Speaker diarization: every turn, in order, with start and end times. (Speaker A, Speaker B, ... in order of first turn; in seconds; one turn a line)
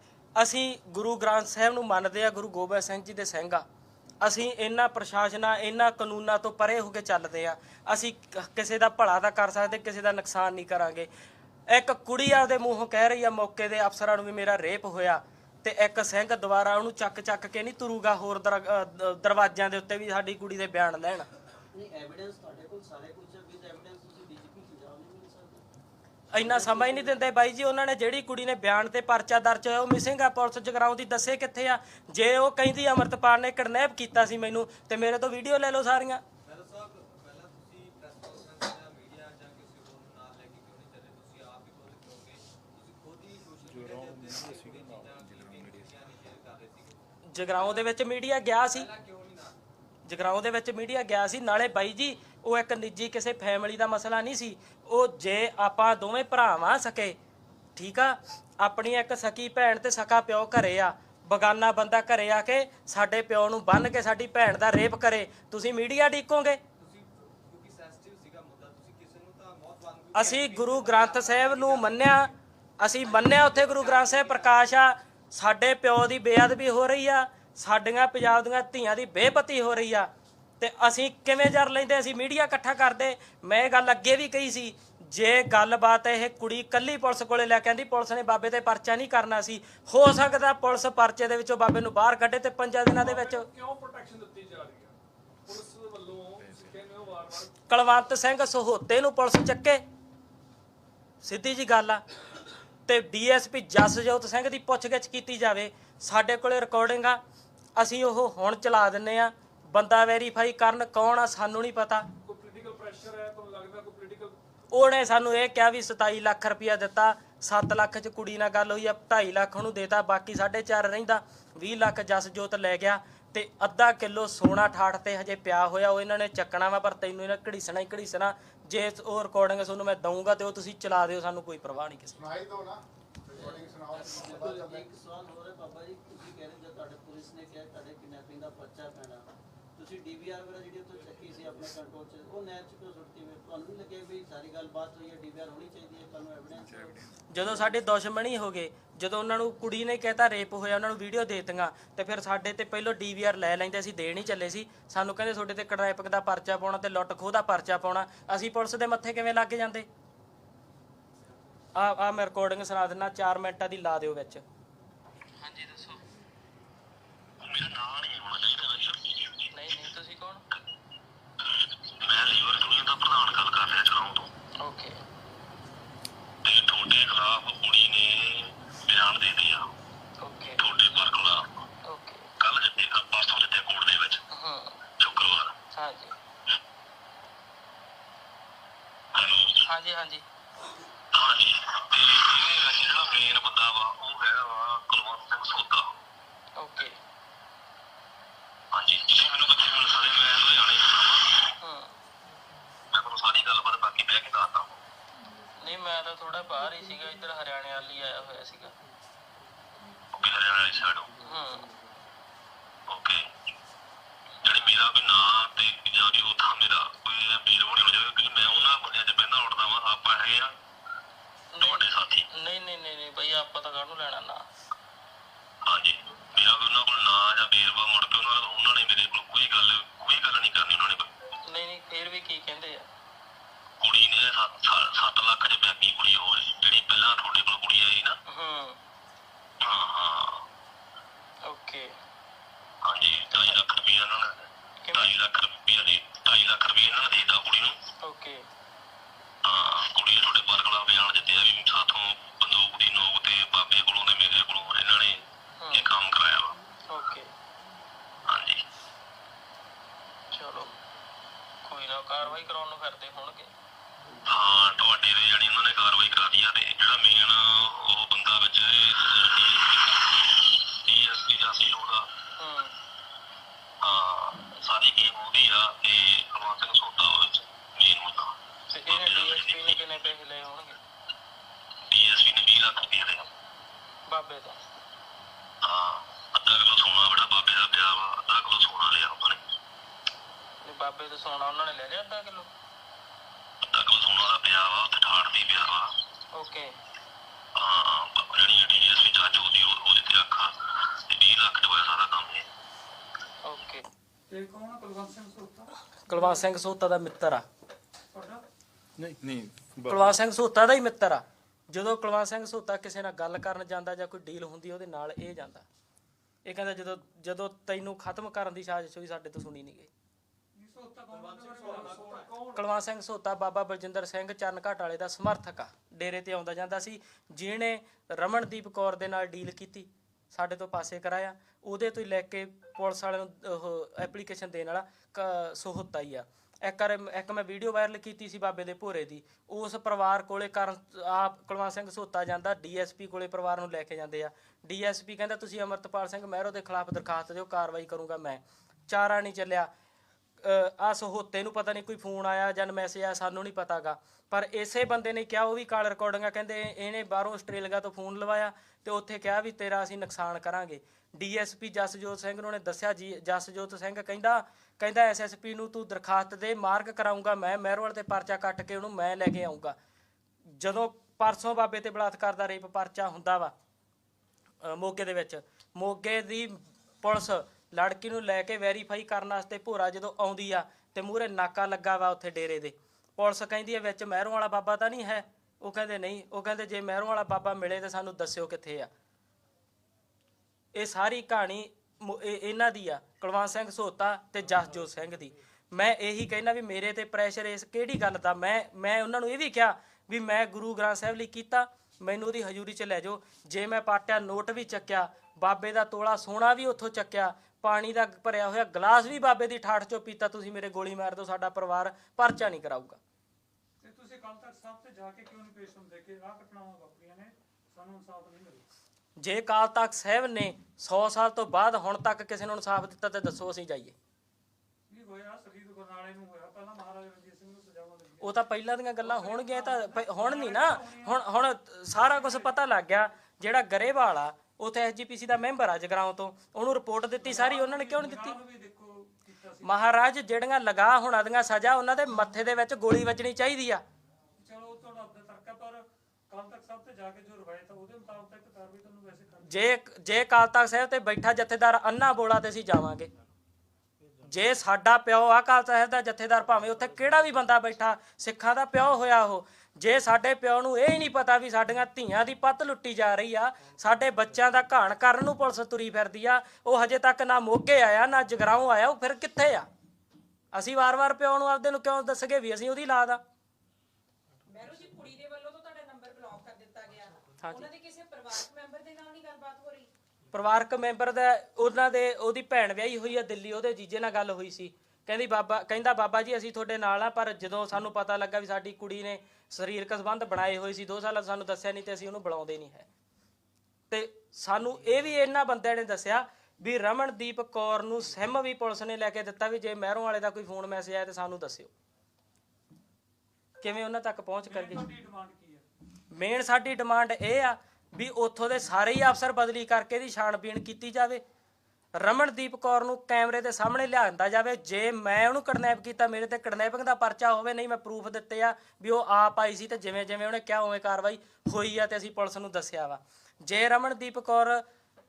Speaker A: 0.3-3.6
Speaker A: 4.2-11.1
Speaker A: 11.7-21.3
Speaker B: 21.7-25.6
Speaker A: 26.3-36.2
Speaker B: 26.4-27.2
Speaker C: 36.4-47.9
Speaker D: 43.7-45.3
Speaker A: 47.3-48.9
Speaker C: 48.5-49.6
Speaker A: 50.0-57.2
Speaker A: 57.8-66.6
Speaker C: 66.8-72.3
Speaker A: 70.1-80.1
Speaker C: 72.9-74.7
Speaker A: 80.6-93.5
Speaker E: 92.9-94.9
Speaker E: 95.5-97.5
Speaker A: 97.7-99.8
Speaker A: 101.2-102.0
Speaker A: 102.9-107.2
Speaker A: 107.8-112.0
Speaker E: 112.2-114.3
Speaker A: 114.7-132.2
Speaker D: 132.2-132.8
Speaker B: 133.3-147.0
Speaker D: 133.3-134.9
Speaker A: 147.3-159.9
Speaker A: 161.8-164.4
Speaker F: 165.4-166.1
Speaker G: 167.4-169.4
Speaker F: 169.5-170.4
Speaker G: 172.0-174.3
Speaker F: 174.6-175.0
Speaker G: 176.4-179.6
Speaker F: 180.2-180.6
Speaker G: 180.6-181.4
Speaker F: 181.9-182.3
Speaker G: 182.4-184.2
Speaker F: 184.3-184.8
Speaker G: 185.0-185.5
Speaker F: 185.7-186.1
Speaker G: 189.1-189.6
Speaker F: 189.6-190.2
Speaker G: 191.1-196.0
Speaker F: 196.6-197.0
Speaker G: 198.7-201.5
Speaker F: 201.6-201.9
Speaker G: 202.9-204.8
Speaker F: 205.6-208.7
Speaker G: 210.1-211.1
Speaker F: 211.2-211.7
Speaker G: 212.9-213.2
Speaker G: 214.4-220.5
Speaker F: 221.5-224.4
Speaker G: 221.6-222.2
Speaker G: 225.7-231.1
Speaker F: 231.5-232.8
Speaker G: 233.8-238.2
Speaker F: 238.3-238.8
Speaker G: 239.6-240.4
Speaker F: 241.5-241.9
Speaker G: 242.8-247.8
Speaker F: 244.8-245.1
Speaker F: 248.0-248.4
Speaker G: 249.4-256.6
Speaker F: 255.6-255.9
Speaker F: 256.9-257.3
Speaker G: 258.2-258.6
Speaker F: 260.3-260.7
Speaker F: 261.6-263.5
Speaker G: 264.2-272.1
Speaker F: 272.4-272.7
Speaker G: 273.8-278.3
Speaker F: 278.7-280.8
Speaker G: 278.9-279.8
Speaker G: 281.9-283.3
Speaker F: 284.1-284.6
Speaker G: 285.6-289.4
Speaker F: 290.6-292.5
Speaker G: 293.6-295.9
Speaker F: 296.3-296.7
Speaker G: 297.6-300.5
Speaker G: 301.1-302.4
Speaker F: 303.5-303.8
Speaker H: 304.3-306.5
Speaker A: 306.1-307.4
Speaker H: 308.1-308.4
Speaker D: 309.0-310.1
Speaker A: 309.9-315.6
Speaker A: 316.4-319.9
Speaker H: 320.6-322.6
Speaker C: 321.1-322.4
Speaker E: 321.6-322.2
Speaker A: 322.5-349.7
Speaker A: 350.4-369.8
Speaker A: 370.6-373.5
Speaker A: 374.6-388.9
Speaker A: 390.7-413.0
Speaker H: 413.8-418.6
Speaker A: 419.2-423.9
Speaker H: 424.9-428.4
Speaker A: 428.2-438.4
Speaker H: 429.0-431.2
Speaker H: 431.9-432.6
Speaker H: 437.2-439.8
Speaker A: 439.6-443.8
Speaker H: 444.4-449.7
Speaker A: 449.4-453.1
Speaker A: 454.2-469.7
Speaker A: 470.5-473.2
Speaker I: 474.4-479.9
Speaker A: 480.3-492.9
Speaker A: 493.9-501.7
Speaker A: 503.6-504.9
Speaker H: 504.5-505.6
Speaker A: 506.1-511.2
Speaker A: 512.0-524.6